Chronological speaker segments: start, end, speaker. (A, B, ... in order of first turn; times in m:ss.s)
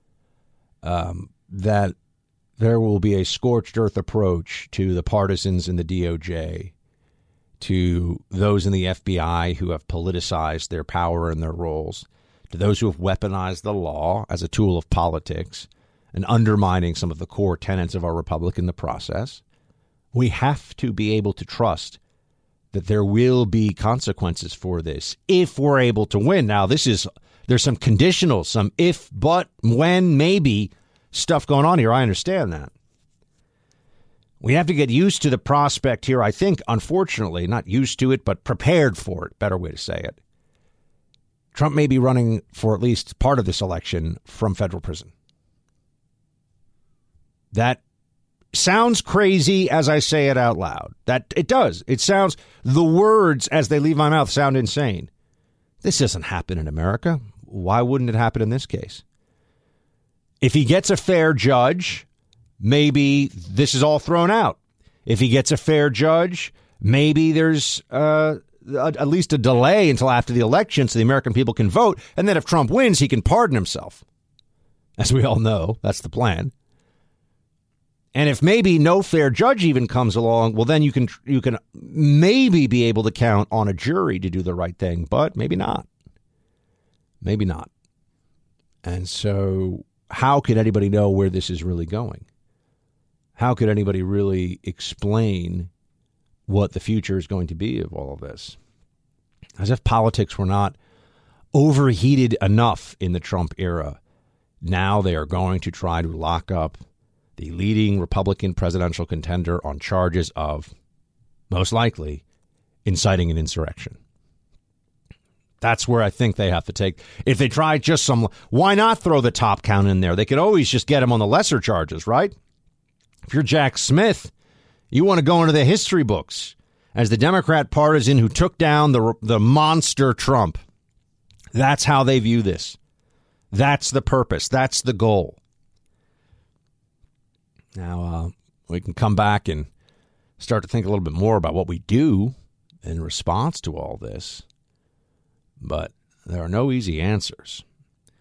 0:00.8-0:01.9 A
0:02.6-0:06.7 A
0:07.6-0:19.4 A
0:20.1-0:22.0 A
0:22.7-0:32.7 A
0:34.4-0:40.2 A
0:41.5-0:45.1 A
0:47.5-0:47.8 A
0:48.5-0:55.1 A
0:55.8-0:59.0 A
1:00.4-1:02.0 A
1:02.6-1:14.0 A
1:15.0-1:16.5 A
1:18.1-1:25.9 A
1:27.2-1:27.7 A
1:28.8-1:32.2 A
1:33.4-1:35.7 A
1:36.5-1:38.6 A
1:39.6-1:40.7 A
1:41.5-1:44.0 A
1:44.6-1:46.8 A
1:47.4-1:50.7 A
1:51.5-1:52.2 A
1:52.8-1:54.0 A
1:55.6-2:02.3 A
2:03.3-2:04.3 A
2:04.9-2:10.6 A
2:11.5-2:12.8 A
2:13.5-2:15.4 A
2:17.7-2:19.7 A
2:20.4-2:24.4 A
2:25.6-2:27.6 A